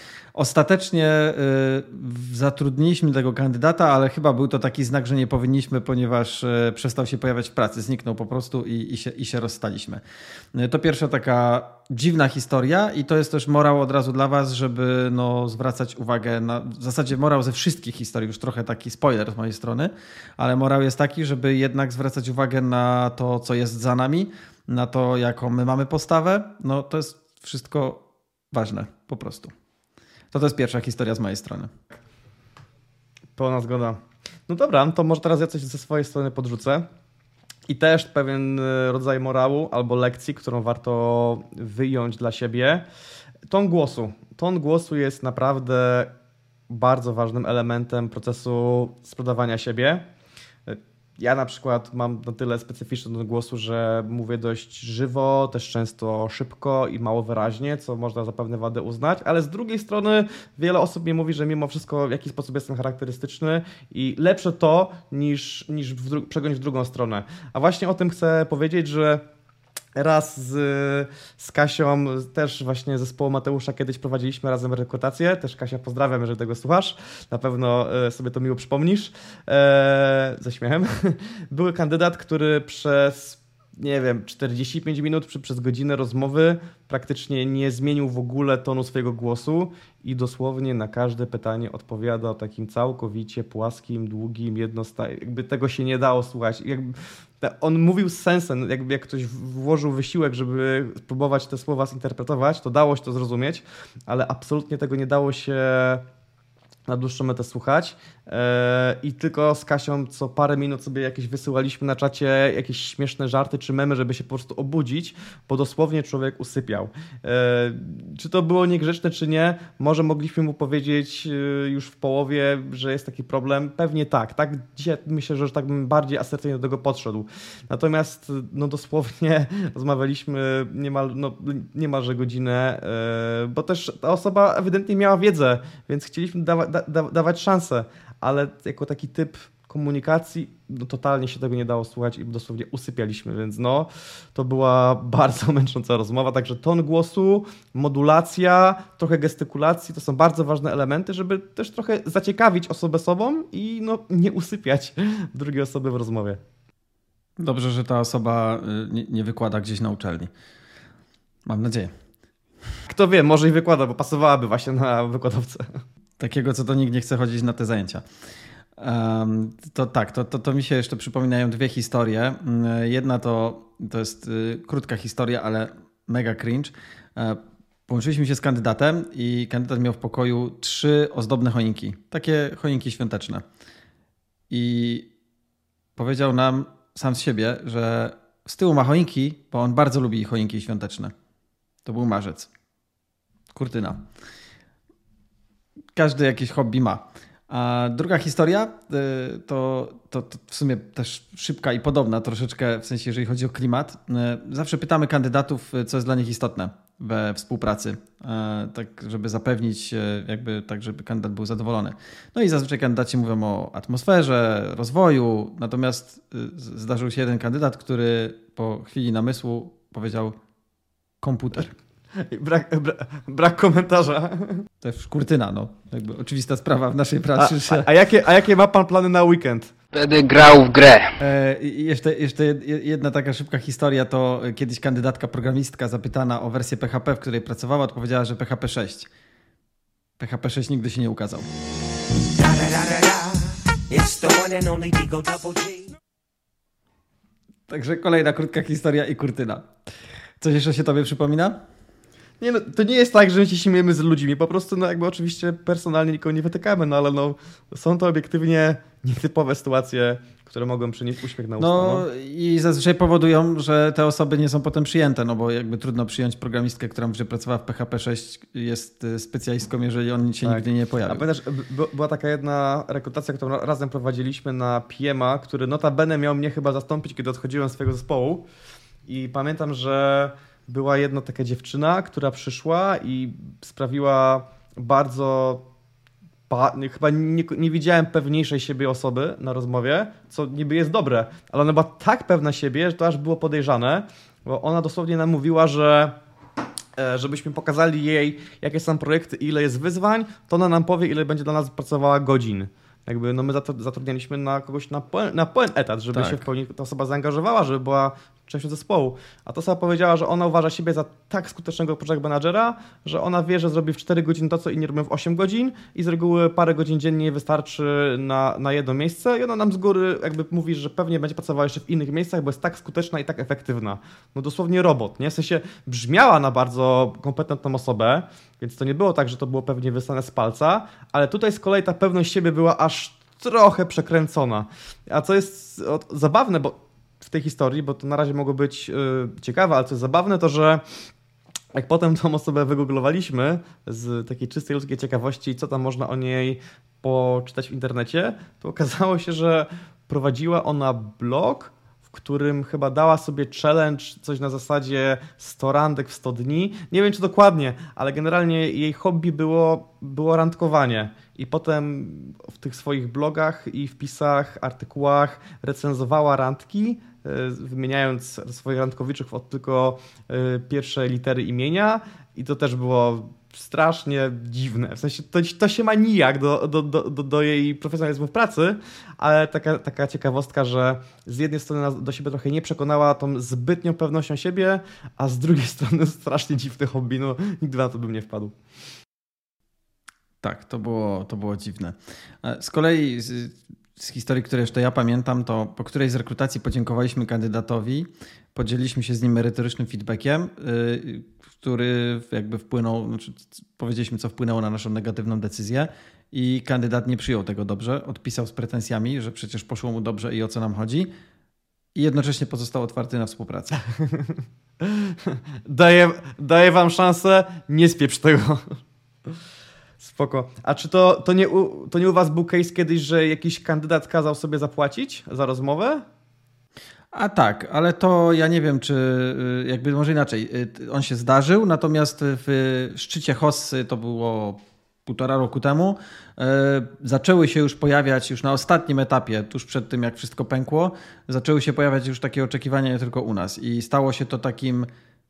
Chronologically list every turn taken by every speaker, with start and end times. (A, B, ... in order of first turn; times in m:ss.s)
0:00.4-0:10.0 A
0:10.5-0:29.5 A
0:30.3-0:31.7 A
0:33.4-0:36.8 B
0:37.7-0:42.8 B
0:43.5-0:46.1 B
0:46.7-0:50.0 B
0:50.7-1:09.2 B
1:10.0-1:46.0 B
1:46.9-2:36.4 B
2:37.4-2:40.3 A
2:41.5-2:41.9 A
2:42.9-2:45.8 B
2:46.2-2:48.0 A
2:48.8-3:03.4 A
3:04.5-3:05.1 A
3:06.0-3:11.1 A
3:11.8-3:12.5 A
3:13.5-3:14.0 A
3:16.0-3:40.4 A
3:41.2-3:41.8 A
3:42.2-3:44.6 B
3:44.8-3:47.9 A
3:47.4-3:49.7 B
3:49.9-3:51.1 C
3:51.2-3:59.1 A
4:00.2-4:01.5 A
4:02.4-4:05.9 C
4:07.7-4:09.7 A
4:10.4-4:11.6 A
4:12.4-4:22.0 B
4:21.6-4:31.2 A
4:30.4-4:38.5 B
4:39.1-4:45.6 B
4:46.5-4:56.2 B
4:57.0-5:40.8 B
5:06.1-5:06.4 A
5:41.7-6:28.6 B
6:30.4-6:51.1 A
6:52.0-6:53.8 A
6:54.1-6:58.8 B
7:00.0-7:06.0 B
7:07.1-7:24.9 A